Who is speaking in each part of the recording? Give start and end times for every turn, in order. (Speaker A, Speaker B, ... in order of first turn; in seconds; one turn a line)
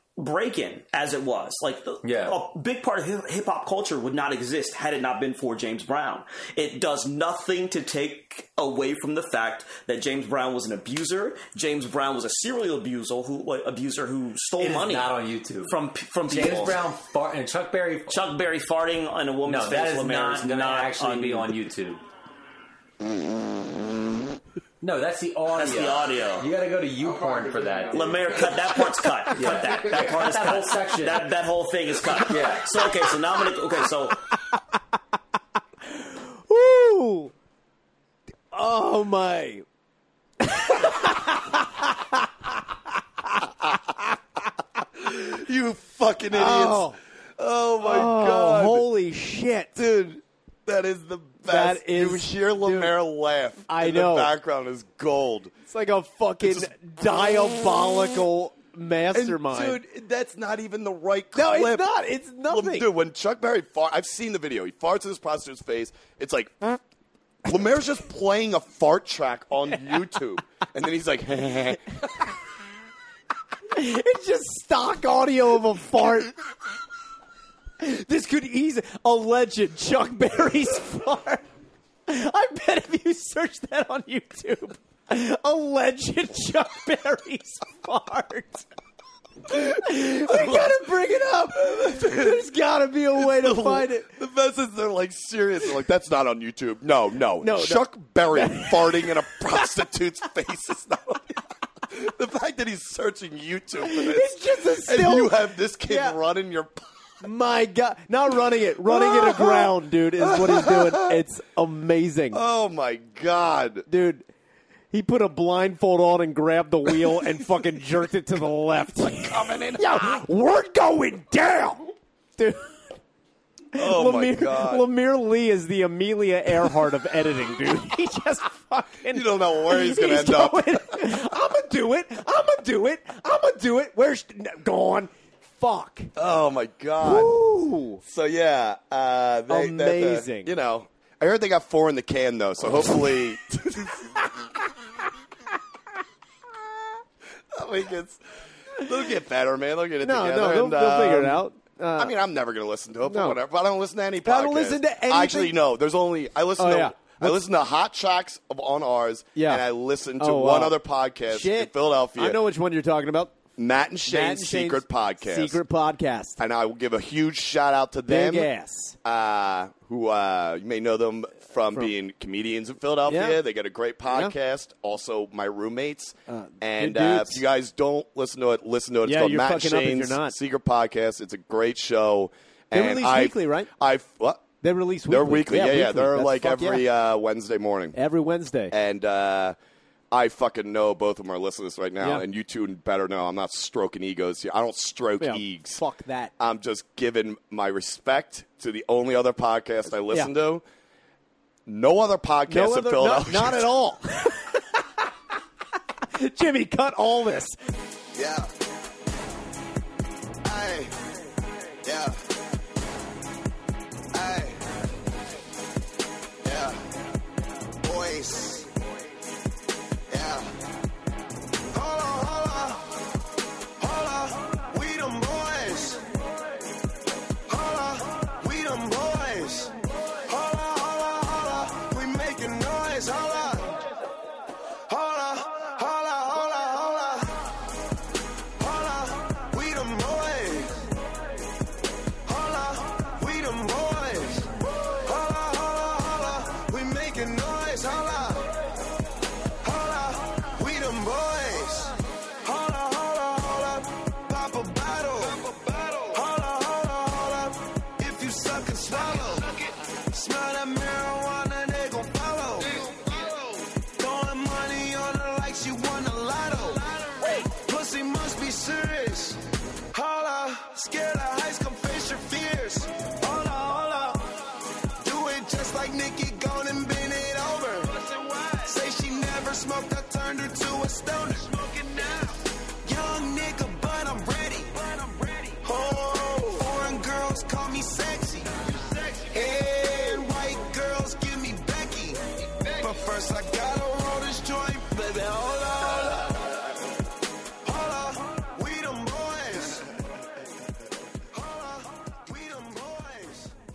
Speaker A: 0.2-15.1
Speaker B: 2.0-2.4
Speaker B: 14.6-18.2
Speaker A: 15.7-16.8
Speaker A: 18.1-21.5
Speaker B: 19.4-22.0
Speaker B: 24.8-31.4
Speaker A: 25.5-26.5
Speaker A: 27.9-34.3
Speaker B: 32.1-33.1
Speaker C: 34.5-34.8
Speaker C: 35.8-37.3
Speaker C: 38.5-39.6
Speaker C: 40.4-43.5
Speaker D: 45.0-48.9
Speaker C: 46.3-47.0
Speaker C: 47.8-49.8
Speaker D: 49.7-55.5
Speaker C: 51.4-53.0
Speaker C: 53.7-54.3
Speaker C: 55.7-59.8
Speaker D: 56.4-56.7
Speaker D: 59.1-61.9
Speaker C: 61.3-62.9
Speaker D: 62.5-66.8
Speaker D: 67.4-72.3
Speaker C: 73.7-76.3
Speaker C: 77.8-81.5
Speaker C: 82.1-88.7
Speaker C: 89.5-94.1
Speaker D: 90.2-90.9
Speaker D: 91.6-92.4
Speaker D: 93.1-106.8
Speaker C: 97.4-99.8
Speaker C: 103.8-106.2
Speaker C: 107.2-112.4
Speaker D: 108.8-111.2
Speaker D: 112.3-113.9
Speaker C: 113.9-114.2
Speaker C: 114.9-123.0
Speaker D: 119.0-120.2
Speaker D: 123.7-124.8
Speaker C: 123.7-136.1
Speaker D: 129.1-131.2
Speaker D: 136.2-137.3
Speaker C: 137.0-138.0
Speaker D: 138.0-144.4
Speaker C: 139.5-140.5
Speaker C: 142.7-143.2
Speaker D: 147.5-148.2
Speaker D: 148.7-151.4
Speaker C: 150.0-152.1
Speaker D: 151.9-162.4
Speaker C: 153.0-153.4
Speaker C: 154.2-155.6
Speaker C: 156.6-157.4
Speaker C: 159.3-159.6
Speaker C: 160.2-163.3
Speaker D: 163.6-165.6
Speaker C: 164.1-166.4
Speaker D: 166.4-168.5
Speaker C: 168.1-169.0
Speaker D: 169.0-184.4
Speaker C: 173.1-173.4
Speaker C: 174.1-174.3
Speaker C: 176.3-177.4
Speaker C: 179.0-180.3
Speaker C: 182.7-183.7
Speaker C: 184.6-186.8
Speaker D: 185.1-188.0
Speaker C: 187.9-188.7
Speaker D: 188.7-189.5
Speaker D: 190.1-195.8
Speaker C: 195.2-196.3
Speaker D: 196.4-200.6
Speaker D: 201.7-203.7
Speaker C: 202.5-205.1
Speaker C: 205.9-207.6
Speaker E: 208.1-208.5
Speaker E: 210.4-210.9
Speaker E: 211.8-212.2
Speaker E: 214.1-214.6
Speaker E: 216.4-216.8
Speaker E: 217.8-218.7
Speaker E: 220.1-220.5
Speaker E: 221.7-223.0
Speaker E: 223.8-226.1
Speaker E: 227.5-233.9
Speaker E: 234.9-237.5
Speaker E: 238.6-240.9
Speaker E: 242.2-248.5
Speaker E: 249.6-274.4
Speaker E: 275.0-296.8
Speaker E: 297.6-299.9
Speaker E: 301.3-303.6